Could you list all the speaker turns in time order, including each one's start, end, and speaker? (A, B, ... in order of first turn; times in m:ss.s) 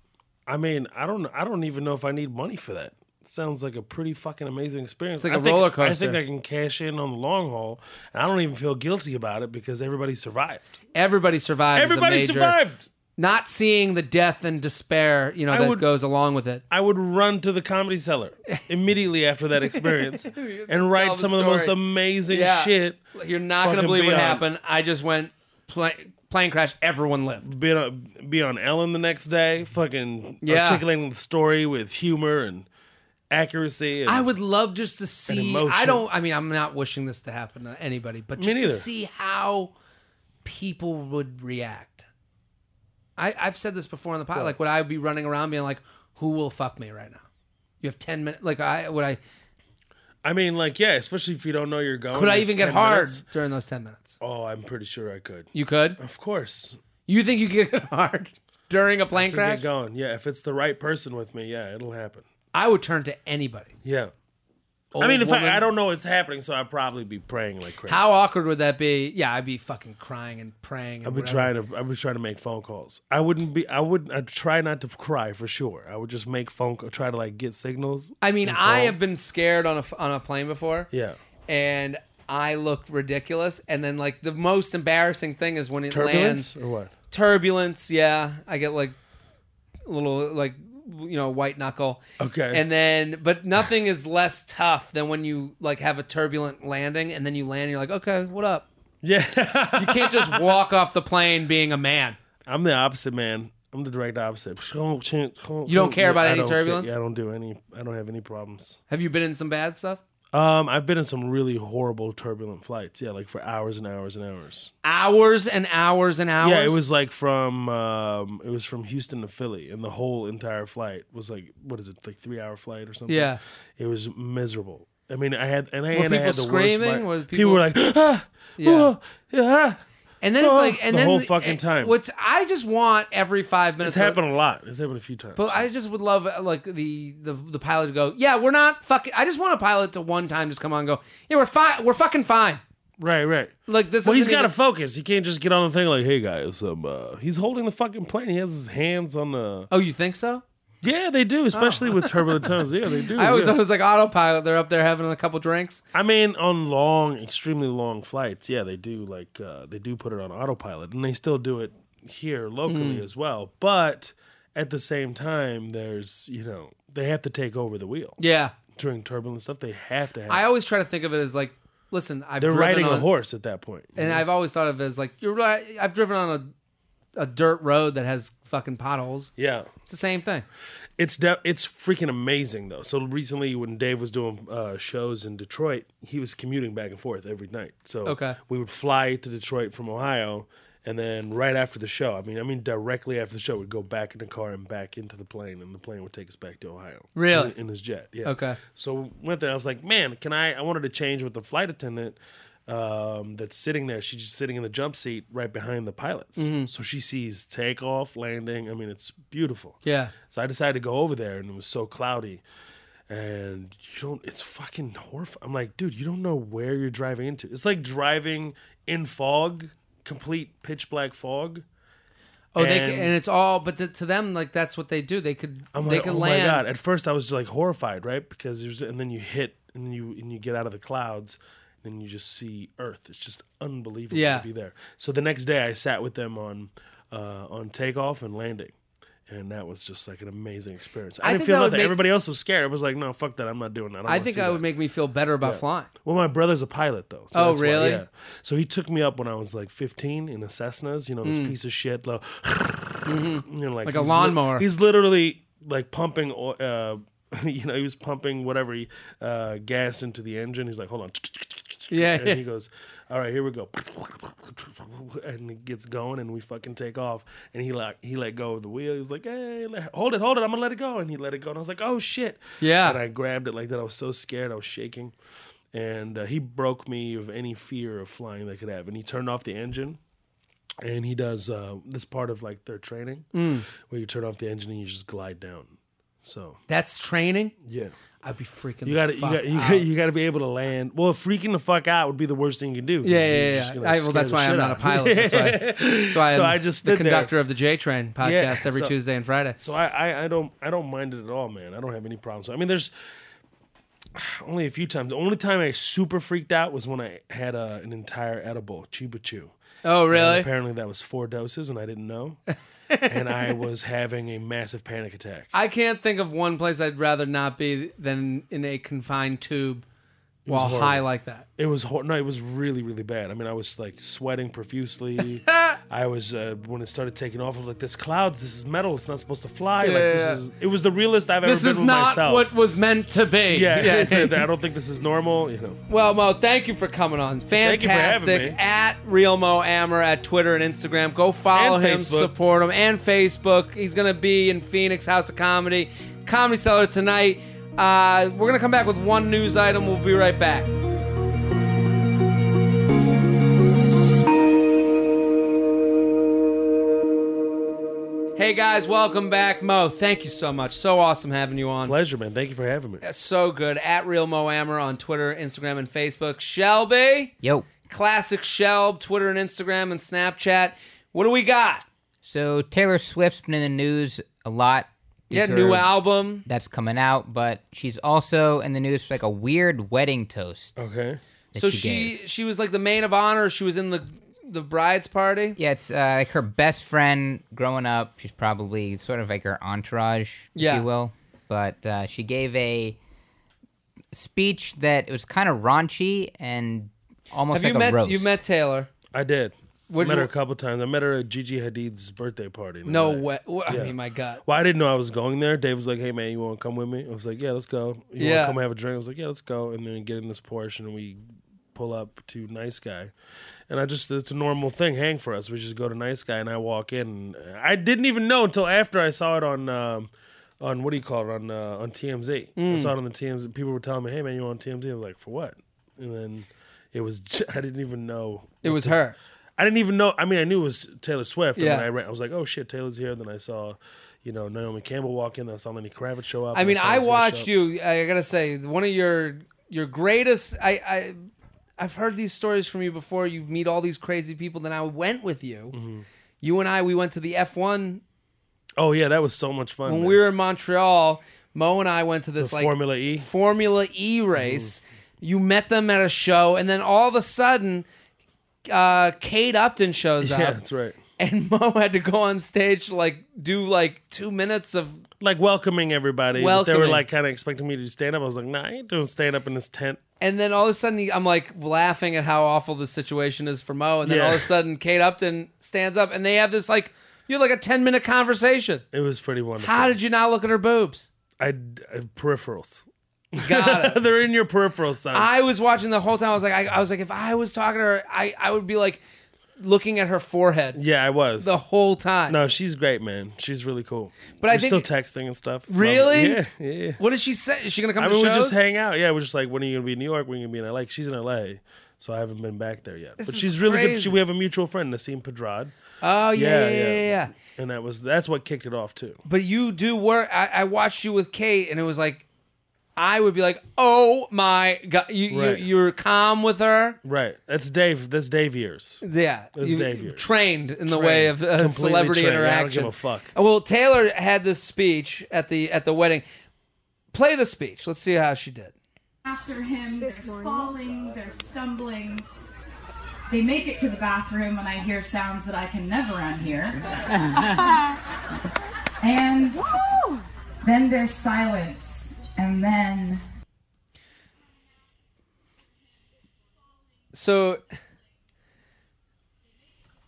0:00.5-0:10.8 A
0:05.2-0:06.2 B
0:10.9-0:12.6 B
0:11.7-0:12.8 A
0:13.2-0:16.6 B
0:15.5-0:15.9 A
0:16.7-0:23.0 A
0:19.6-0:27.5 B
0:23.6-0:24.4 A
0:27.4-0:32.7 A
0:30.4-0:30.8 B
0:33.3-0:34.3 A
0:34.0-0:39.7 B
0:35.3-0:36.0 A
0:38.4-0:38.9 A
0:40.4-0:42.1 B
0:43.2-0:47.2 B
0:47.8-0:49.2 B
0:50.2-0:53.2 A
0:52.1-0:54.2 B
0:54.2-0:56.8 A
0:55.5-0:56.0 B
0:57.1-0:59.6 B
0:59.1-1:02.2 A
1:02.5-1:03.7 B
1:03.8-1:04.1 A
1:04.9-1:05.6 B
1:05.0-1:08.1 A
1:07.8-1:11.5 B
1:11.0-1:19.0 A
1:18.2-1:20.9 B
1:20.9-1:21.2 A
1:21.5-1:26.5 B
1:25.9-1:26.9 A
1:27.1-1:29.0 B
1:29.8-1:38.7 B
1:32.2-1:32.6 A
1:39.0-1:40.6 A
1:39.8-1:42.2 B
1:42.4-1:48.8 A
1:45.7-1:46.9 B
1:48.9-1:50.0 B
1:50.3-1:54.7 A
1:54.8-1:56.8 B
1:56.4-2:09.8 A
2:03.1-2:03.4 B
2:05.9-2:07.7 B
2:08.6-2:08.9 B
2:10.2-2:14.2 B
2:10.4-2:11.9 A
2:13.8-2:15.7 A
2:15.4-2:22.6 B
2:23.0-2:29.7 A
2:23.7-2:24.5 B
2:29.7-2:30.4 B
2:30.8-2:33.6 A
2:31.5-2:35.8 B
2:35.9-2:48.2 A
2:42.7-2:43.0 B
2:48.2-2:48.5 B
2:48.7-2:50.4 A
2:50.3-2:53.1 B
2:52.4-2:54.2 A
2:54.0-2:56.5 B
2:57.2-2:59.3 B
2:59.4-2:59.7 A
2:59.8-3:00.4 B
3:01.0-3:32.4 A
3:08.0-3:08.4 B
3:17.1-3:17.5 B
3:18.2-3:18.6 B
3:26.4-3:26.7 B
3:29.8-3:30.1 B
3:33.1-3:41.6 A
3:42.5-3:46.6 B
3:42.6-3:43.1 A
3:45.7-3:58.7 A
3:54.1-3:54.4 B
3:59.3-4:04.6 A
4:01.2-4:02.0 B
4:04.1-4:05.9 B
4:05.4-4:35.1 A
4:07.3-4:08.0 B
4:11.2-4:11.5 B
4:13.0-4:14.6 B
4:21.9-4:22.4 B
4:32.6-4:33.0 B
4:35.7-4:40.0 A
4:40.8-4:46.6 A
4:43.3-4:43.7 B
4:46.7-4:47.5 B
4:47.6-4:47.9 A
4:48.2-4:49.8 B
4:48.8-4:57.3 A
4:53.0-4:59.6 B
4:58.2-4:58.9 A
4:59.6-5:02.9 A
5:04.1-5:09.5 A
5:09.8-5:10.5 B
5:10.1-5:12.4 A
5:12.9-5:13.6 B
5:13.1-5:15.5 A
5:15.5-5:19.8 B
5:20.4-5:21.0 A
5:20.5-5:21.4 B
5:21.6-5:32.5 A
5:25.4-5:25.8 B
5:29.8-5:30.4 B
5:31.4-5:34.4 B
5:33.5-5:35.8 A
5:35.9-5:50.7 B
5:37.6-5:38.6 A
5:41.5-5:42.3 A
5:58.4-6:01.9 B
6:01.8-6:03.0 A
6:03.0-6:07.3 B
6:07.4-6:07.7 C
6:07.9-6:11.8 B
6:12.2-6:20.8 C
6:15.3-6:16.4 B
6:20.8-6:21.2 A
6:21.5-6:22.1 C
6:21.6-6:25.6 B
6:25.6-6:33.0 C
6:30.5-6:30.9 B
6:34.1-6:38.4 C
6:37.5-6:38.9 B
6:39.1-6:51.2 A
6:39.9-6:40.3 B
6:42.8-6:44.4 B
6:48.2-6:48.6 B
6:51.7-6:53.1 A
6:53.7-7:09.0 A
7:02.6-7:02.9 B
7:08.6-7:09.2 B
7:09.6-7:17.5 A
7:11.6-7:11.9 B
7:16.5-7:21.2 B
7:21.8-7:25.8 B
7:25.7-7:26.0 A
7:26.4-7:28.0 B
7:28.8-7:30.2 A
7:29.8-7:37.8 B
7:32.4-7:33.3 A
7:34.4-7:34.7 A
7:38.7-7:40.6 B
7:40.2-7:41.0 A
7:41.2-7:45.0 B
7:45.2-7:50.0 A
7:46.3-7:47.0 B
7:50.2-7:58.8 B
7:54.0-7:54.5 A
7:58.9-8:00.0 A
7:59.6-8:01.1 B
8:01.4-8:05.3 A
8:03.4-8:04.0 B
8:05.1-8:09.0 B
8:09.6-8:10.8 B
8:10.7-8:11.5 A
8:11.4-8:12.4 B
8:12.3-8:17.0 A
8:14.4-8:14.9 B
8:15.7-8:16.4 B
8:17.0-8:18.6 B
8:18.0-8:25.7 A
8:23.2-8:24.2 B
8:26.0-8:27.3 B
8:26.3-8:29.2 A
8:29.2-8:32.2 B
8:33.0-8:37.0 B
8:35.3-8:35.7 A
8:37.0-8:39.0 A
8:39.0-8:46.2 B
8:39.5-8:43.3 A
8:47.1-8:48.7 B
8:49.2-8:52.3 D
8:53.3-8:56.8 D
8:59.0-8:59.6 D
9:00.6-9:03.2 D
9:07.1-9:07.6 B